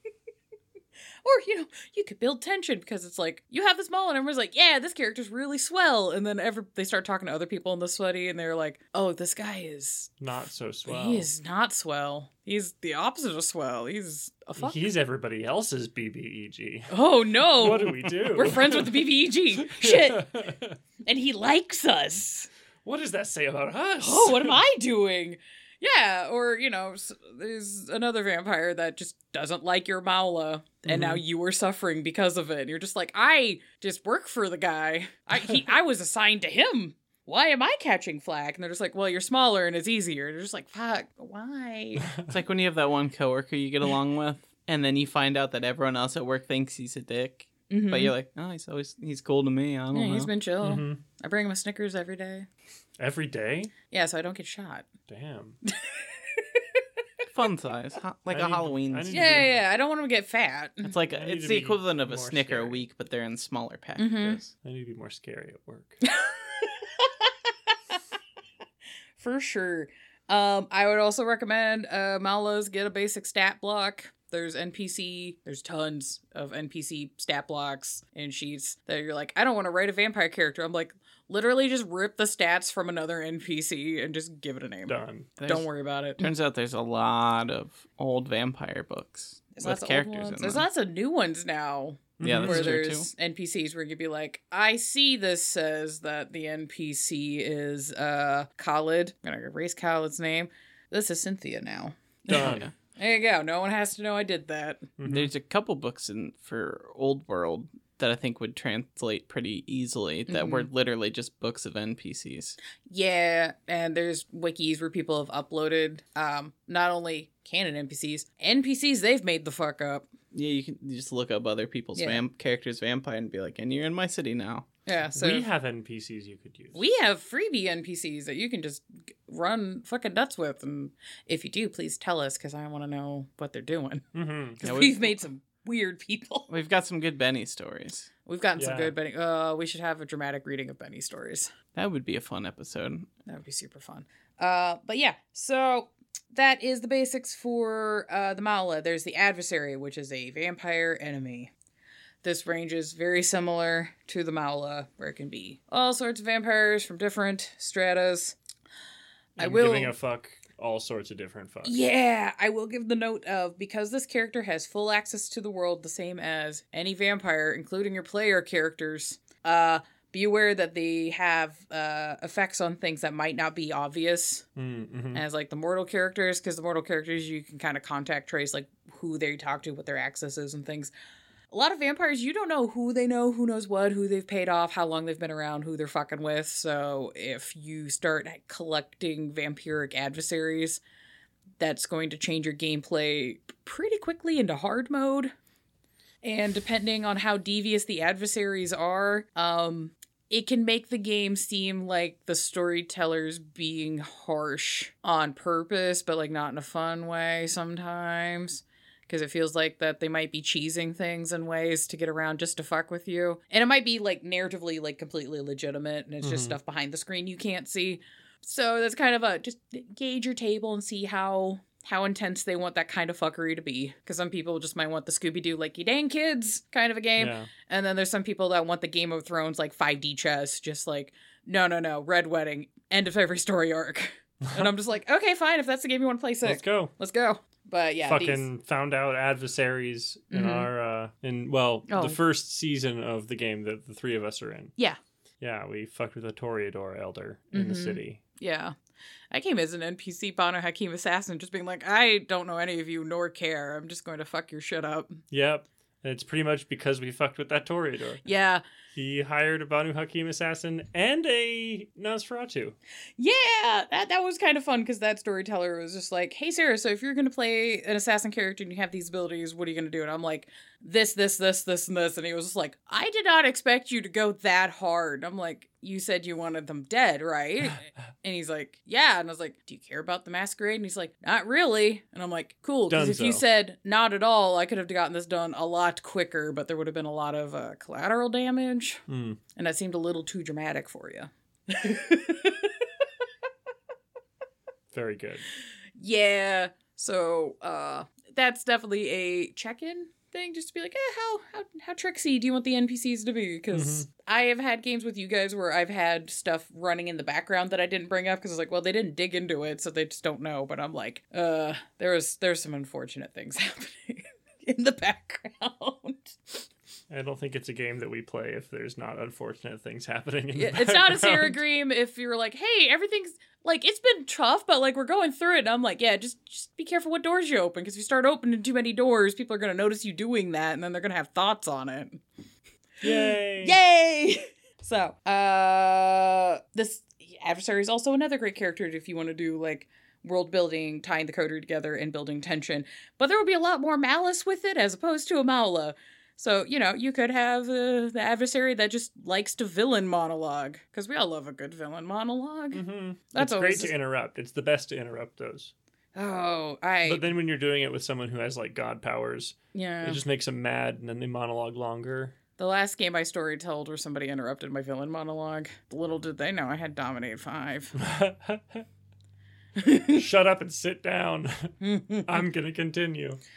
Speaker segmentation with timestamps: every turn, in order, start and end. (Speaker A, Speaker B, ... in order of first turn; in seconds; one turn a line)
Speaker A: 1.2-10.2
Speaker B: 10.2-11.3
Speaker A: 10.9-14.9
Speaker B: 14.6-20.8
Speaker A: 16.9-20.4
Speaker A: 21.0-22.5
Speaker B: 22.8-24.6
Speaker A: 24.0-42.1
Speaker B: 30.9-31.2
Speaker C: 42.3-50.3
Speaker A: 47.7-48.1
Speaker A: 49.9-52.5
Speaker B: 50.6-51.0
Speaker B: 53.0-53.7
Speaker A: 53.9-54.9
Speaker B: 55.1-55.6
Speaker A: 55.7-56.6
Speaker C: 57.3-59.4
Speaker B: 58.3-59.6
Speaker A: 59.1-60.9
Speaker C: 60.8-64.5
Speaker B: 61.1-62.8
Speaker A: 64.0-64.4
Speaker B: 64.5-66.0
Speaker A: 66.1-67.3
Speaker A: 69.2-86.3
Speaker B: 84.9-85.3
Speaker C: 85.4-85.7
Speaker C: 86.2-90.7
Speaker A: 89.5-104.9
Speaker B: 92.2-92.7
Speaker C: 92.2-93.1
Speaker B: 102.3-102.6
Speaker C: 102.3-102.7
Speaker B: 105.0-105.3
Speaker C: 105.0-112.6
Speaker A: 110.3-110.7
Speaker A: 112.9-120.1
Speaker C: 120.3-124.7
Speaker A: 122.0-122.2
Speaker A: 124.9-125.5
Speaker B: 125.1-126.8
Speaker A: 126.7-134.1
Speaker B: 134.1-134.6
Speaker A: 134.6-136.5
Speaker C: 134.6-135.1
Speaker C: 136.5-138.1
Speaker A: 138.2-141.5
Speaker B: 138.6-138.9
Speaker C: 141.7-143.1
Speaker A: 143.2-151.5
Speaker A: 152.2-158.3
Speaker B: 159.4-161.8
Speaker A: 159.4-159.9
Speaker A: 161.6-174.4
Speaker B: 174.6-175.2
Speaker A: 175.1-180.9
Speaker A: 181.5-190.8
Speaker A: 191.6-195.3
Speaker A: 196.2-238.5
Speaker B: 216.2-216.6
Speaker B: 227.2-227.5
Speaker B: 234.4-234.7
Speaker B: 236.4-236.9
Speaker B: 238.1-244.7
Speaker A: 240.3-240.7
Speaker A: 241.9-242.2
Speaker B: 245.4-248.2
Speaker A: 247.5-248.7
Speaker A: 249.3-255.2
Speaker B: 255.3-258.2
Speaker A: 258.2-258.6
Speaker B: 258.9-262.7
Speaker A: 263.2-289.0
Speaker B: 282.9-283.4
Speaker B: 289.1-289.4
Speaker A: 289.5-292.9
Speaker B: 294.9-295.4
Speaker A: 296.0-316.7
Speaker B: 303.7-304.1
Speaker B: 317.1-321.6
Speaker A: 320.5-332.2
Speaker B: 333.0-333.8
Speaker A: 333.6-352.8
Speaker B: 352.7-355.7
Speaker A: 353.3-353.9
Speaker A: 356.1-357.2
Speaker B: 357.0-362.3
Speaker A: 359.7-360.2
Speaker A: 362.6-367.9
Speaker B: 368.0-368.9
Speaker A: 369.8-370.2
Speaker B: 370.1-373.4
Speaker A: 371.8-372.4